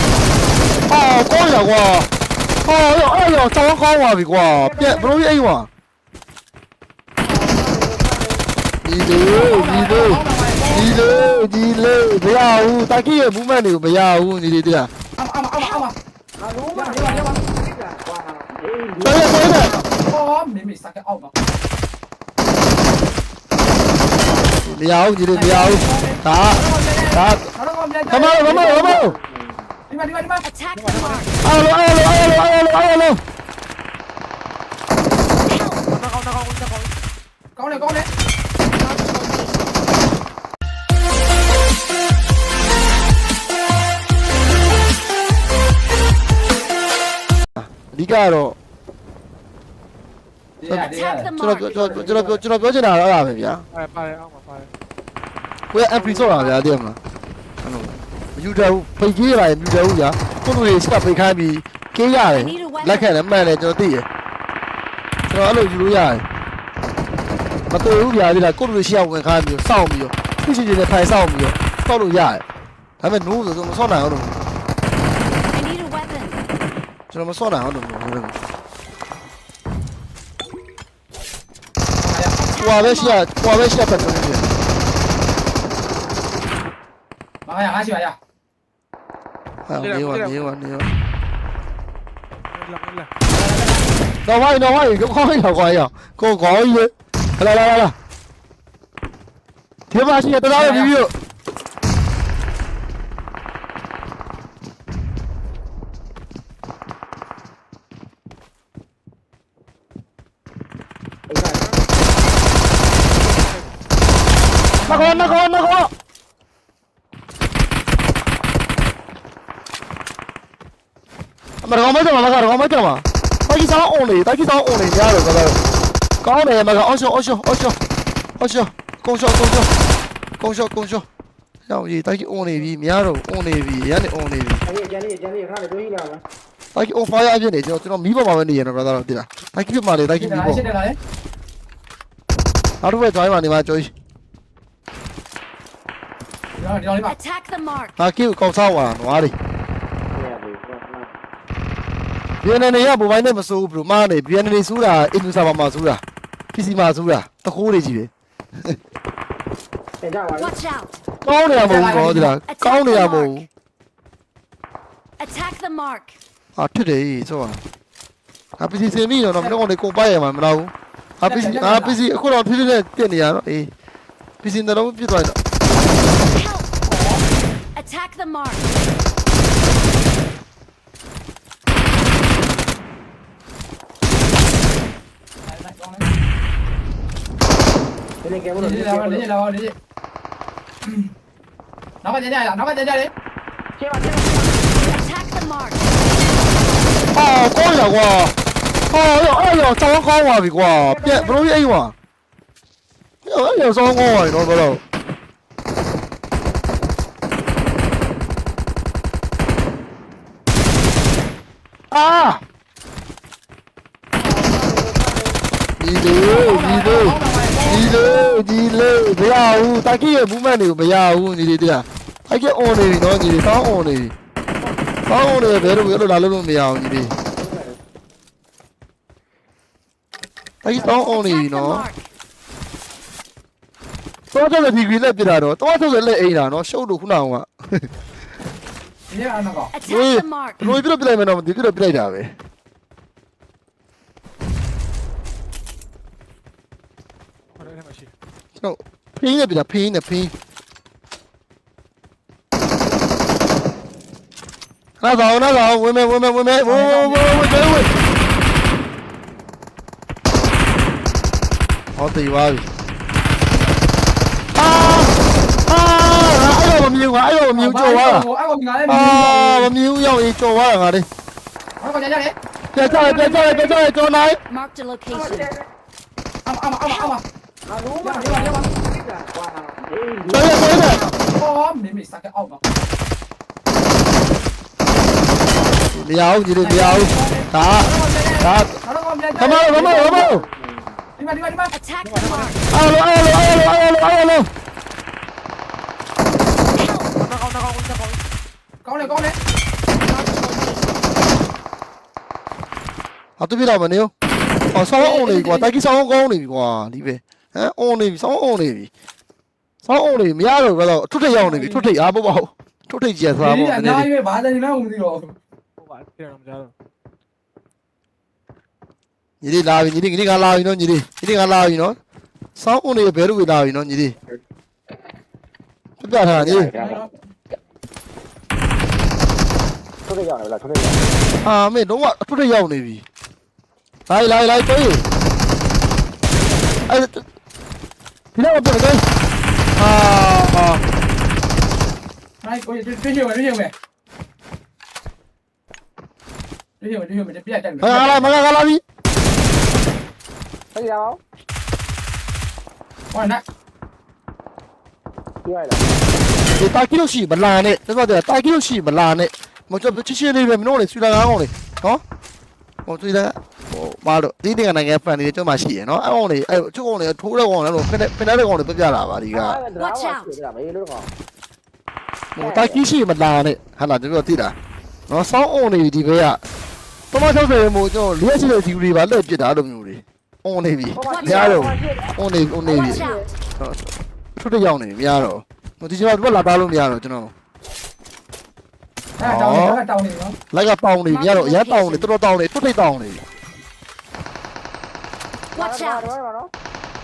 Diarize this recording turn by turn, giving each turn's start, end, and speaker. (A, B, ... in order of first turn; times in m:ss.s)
0:00.9-0:02.1 A
0:02.6-0:05.7 A
0:04.4-0:05.1 B
0:07.2-0:08.4 B
0:08.8-0:14.9 A
0:09.2-0:11.3 C
0:15.2-0:16.0 C
0:16.4-0:19.5 B
0:16.7-0:17.4 C
0:19.0-0:19.8 A
0:19.8-0:21.3 C
0:24.5-0:27.5 A
0:25.3-0:28.9 C
0:28.1-0:29.1 A
0:28.4-0:29.4 B
0:29.9-0:30.4 C
0:30.4-0:31.3 D
0:30.8-0:31.3 E
0:31.4-0:33.2 A
0:35.4-0:35.8 D
0:35.8-0:36.9 E
0:37.6-0:38.1 C
0:37.7-0:38.1 E
0:38.8-0:39.6 D
0:47.6-0:48.6 A
0:50.6-0:51.3 C
0:50.7-0:53.6 A
0:50.9-0:51.7 D
0:51.8-0:52.0 B
0:53.7-0:54.7 E
0:55.7-0:57.0 A
0:55.9-0:56.6 B
0:57.6-1:04.1 A
1:02.3-1:03.1 D
1:05.3-1:06.2 A
1:07.7-1:12.4 A
1:13.0-1:14.3 A
1:15.5-1:16.4 D
1:17.1-1:18.4 A
1:22.0-1:22.4 C
1:22.4-1:23.2 D
1:22.6-1:24.6 A
1:27.4-1:28.2 C
1:29.7-1:30.9 A
1:29.7-1:30.5 E
1:32.5-1:33.1 E
1:33.3-1:33.9 C
1:34.2-1:37.9 A
1:39.9-1:41.1 A
1:40.5-1:41.0 C
1:51.3-1:51.6 B
1:51.6-1:51.9 E
1:53.1-1:53.8 E
1:54.8-1:55.9 A
1:54.9-1:55.3 C
2:01.6-2:05.6 A
2:06.2-2:07.8 A
2:08.4-2:09.7 A
2:10.4-2:11.0 A
2:11.7-2:14.6 A
2:14.6-2:16.2 B
2:16.7-2:20.7 A
2:20.2-2:21.0 C
2:22.8-2:23.9 A
2:26.6-2:27.2 C
2:27.0-2:27.9 D
2:28.0-2:29.4 A
2:30.1-2:31.1 B
2:32.4-2:36.0 A
2:36.5-2:38.1 A
2:40.0-2:40.5 B
2:40.3-2:41.0 D
2:41.2-2:43.4 A
2:41.5-2:42.4 C
2:42.4-2:43.5 D
2:45.2-2:46.2 D
2:46.6-2:47.6 A
2:48.6-2:53.7 A
2:51.2-2:52.0 C
2:54.4-2:55.4 A
2:56.3-2:56.7 D
2:57.8-2:58.8 D
3:05.4-3:06.1 C
3:08.2-3:09.3 B
3:08.5-3:09.7 C
3:10.8-3:11.1 C
3:12.0-3:13.1 C
3:13.8-3:14.7 B
3:14.8-3:15.9 D
3:17.1-3:18.3 A
3:18.9-3:21.9 A
3:20.7-3:21.4 B
3:23.2-3:24.8 A
3:31.9-3:32.4 A
3:34.2-3:35.4 B
3:35.8-3:44.1 A
3:36.2-3:37.9 C
3:45.1-3:47.2 A
3:45.3-3:45.8 B
3:47.3-3:47.8 B
3:50.6-3:51.8 A
3:50.8-3:52.0 D
3:54.3-3:57.9 A
3:59.1-3:59.7 C
3:59.7-4:00.8 D
3:59.9-4:02.3 A
4:07.6-4:08.1 E
4:08.6-4:10.3 A
4:15.0-4:17.9 A
4:16.6-4:17.6 C
4:22.0-4:22.7 A
4:24.5-4:25.1 A
4:25.7-4:28.3 A
4:27.5-4:29.7 C
4:28.9-4:31.1 A
4:31.8-4:32.3 C
4:32.7-4:34.4 A
4:32.9-4:33.6 C
4:34.5-4:35.5 D
4:35.1-4:35.6 B
4:36.4-4:37.2 C
4:36.8-4:37.1 D
4:37.7-4:40.6 B
4:38.0-4:38.6 C
4:40.3-4:41.0 A
4:41.3-4:42.6 C
4:45.9-4:48.8 A
4:46.6-4:50.1 C
4:49.4-4:50.4 A
4:49.7-4:50.8 B
4:51.2-4:51.7 C
4:51.7-4:52.6 D
4:52.0-4:52.6 E
4:52.7-4:54.5 A
4:56.8-4:57.0 D
4:57.0-4:58.2 E
4:58.8-4:59.4 C
4:59.0-4:59.3 E
5:00.0-5:00.9 D
5:03.4-5:04.1 A
5:04.7-5:08.9 A
5:04.9-5:05.7 C
5:09.8-5:14.1 A
5:11.3-5:11.8 C
5:13.4-5:15.4 C
5:15.8-5:16.7 E
5:19.4-5:22.0 A
5:22.6-5:24.2 A
5:26.0-5:26.7 A
5:26.3-5:27.0 B
5:26.7-5:27.1 C
5:30.0-5:31.1 B
5:31.4-5:33.0 A
5:34.1-5:35.0 A
5:36.9-5:37.2 A
5:38.3-5:39.0 A
5:39.8-5:40.8 A
5:42.4-5:43.7 C
5:46.8-5:48.3 C
5:47.8-5:48.8 A
5:50.7-5:51.2 B
5:53.1-5:53.4 C
5:55.4-5:55.9 B
5:56.4-6:02.0 A
6:02.8-6:09.6 A
6:09.3-6:11.1 B
6:09.8-6:10.3 D
6:12.4-6:14.5 A
6:12.4-6:12.8 B
6:15.1-6:16.4 A
6:17.1-6:27.3 A
6:21.0-6:22.1 B
6:21.0-6:21.6 D
6:22.6-6:23.2 B
6:22.7-6:23.3 D
6:29.2-6:30.4 C
6:29.2-6:29.8 A
6:30.5-6:33.2 A
6:31.1-6:32.1 D
6:35.5-6:36.1 D
6:35.6-6:36.5 B